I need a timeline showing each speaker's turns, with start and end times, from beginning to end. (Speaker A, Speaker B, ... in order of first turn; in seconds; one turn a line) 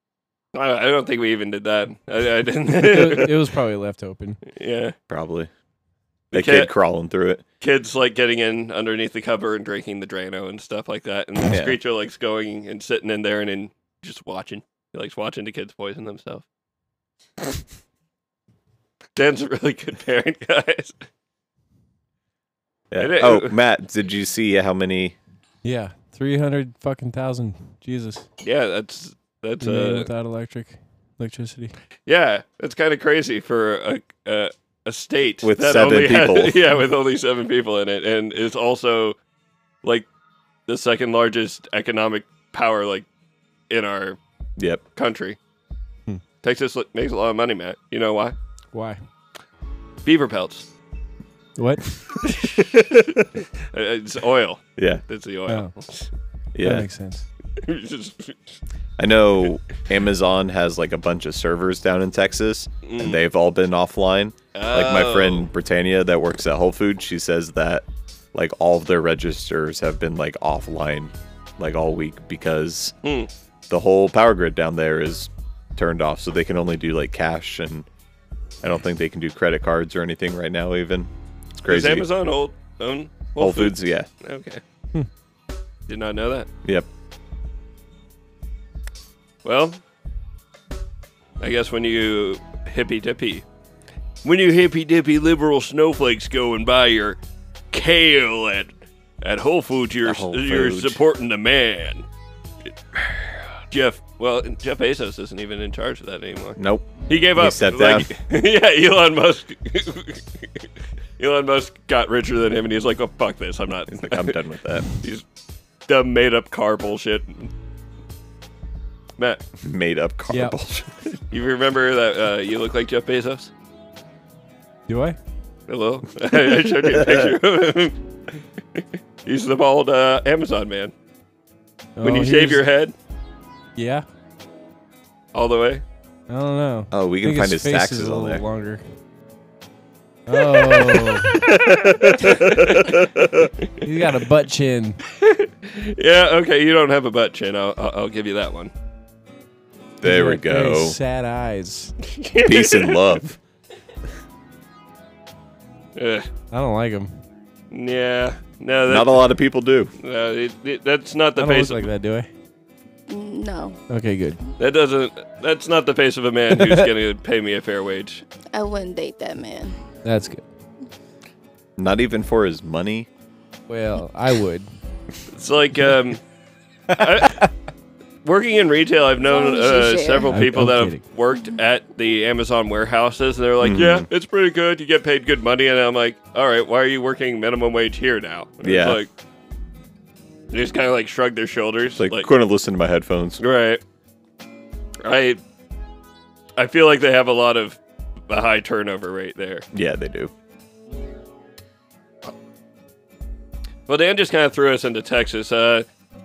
Speaker A: 0.5-3.3
Speaker B: 2.8-4.4
Speaker A: 4.5-4.9
Speaker C: 5.1-5.5
Speaker A: 6.3-6.7
Speaker C: 6.3-7.4
Speaker A: 7.6-16.4
Speaker C: 11.4-11.8
Speaker A: 19.1-20.9
Speaker C: 22.9-25.1
Speaker A: 23.0-23.6
Speaker B: 25.6-28.2
Speaker A: 28.4-30.1
Speaker B: 29.6-31.7
Speaker A: 32.0-39.2
Speaker C: 35.4-36.6
Speaker A: 40.7-43.1
Speaker A: 43.7-44.2
Speaker A: 45.0-45.4
Speaker A: 46.4-48.4
Speaker B: 48.7-49.0
Speaker A: 50.0-50.7
Speaker B: 51.6-51.9
Speaker A: 52.2-56.1
Speaker C: 54.8-55.0
Speaker C: 56.5-56.9
Speaker B: 56.6-57.2
Speaker A: 57.6-58.5
Speaker C: 59.0-73.0
Speaker A: 62.8-63.2
Speaker A: 64.5-65.5
Speaker A: 73.0-73.3
Speaker C: 73.7-77.9
Speaker C: 78.6-82.1
Speaker A: 81.7-84.6
Speaker C: 83.4-84.1
Speaker A: 85.9-86.5
Speaker A: 89.4-89.8
Speaker A: 91.4-93.4
Speaker A: 94.2-97.2
Speaker A: 97.7-102.0
Speaker C: 100.0-101.0
Speaker A: 103.7-110.2
Speaker C: 106.6-108.1
Speaker A: 111.2-115.2
Speaker C: 113.9-114.8
Speaker A: 115.9-117.5
Speaker A: 119.2-119.4
Speaker C: 119.6-120.9
Speaker B: 120.3-120.6
Speaker A: 121.3-123.5
Speaker B: 124.9-125.2
Speaker A: 125.7-128.0
Speaker C: 126.8-127.3
Speaker A: 128.7-130.9
Speaker B: 132.0-132.6
Speaker A: 132.0-132.9
Speaker B: 133.8-134.0
Speaker A: 135.3-135.8
Speaker B: 136.3-138.8
Speaker C: 136.9-138.4
Speaker B: 140.3-141.3
Speaker A: 140.6-143.7
Speaker B: 143.8-145.0
Speaker A: 145.2-148.7
Speaker C: 150.0-151.0
Speaker B: 150.0-151.9
Speaker A: 152.1-153.0
Speaker C: 152.4-153.4
Speaker A: 155.9-156.3
Speaker B: 156.5-157.1
Speaker A: 157.7-159.3
Speaker C: 158.9-159.9
Speaker A: 160.0-161.9
Speaker B: 161.4-162.3
Speaker D: 163.1-163.8
Speaker B: 163.9-164.4
Speaker A: 164.6-168.2
Speaker B: 166.5-166.9
Speaker D: 168.5-169.8
Speaker B: 170.0-170.4
Speaker C: 171.8-173.1
Speaker B: 173.7-174.7
Speaker A: 175.3-176.2
Speaker A: 176.9-177.5
Speaker A: 178.2-189.1
Speaker D: 179.2-180.4
Speaker B: 180.3-181.0
Speaker C: 183.6-184.1
Speaker C: 188.6-189.0
Speaker A: 190.5-192.3
Speaker C: 192.0-193.4
Speaker A: 193.4-193.8
Speaker A: 195.0-195.4
Speaker A: 196.6-199.6
Speaker C: 199.7-200.3
Speaker A: 203.9-205.8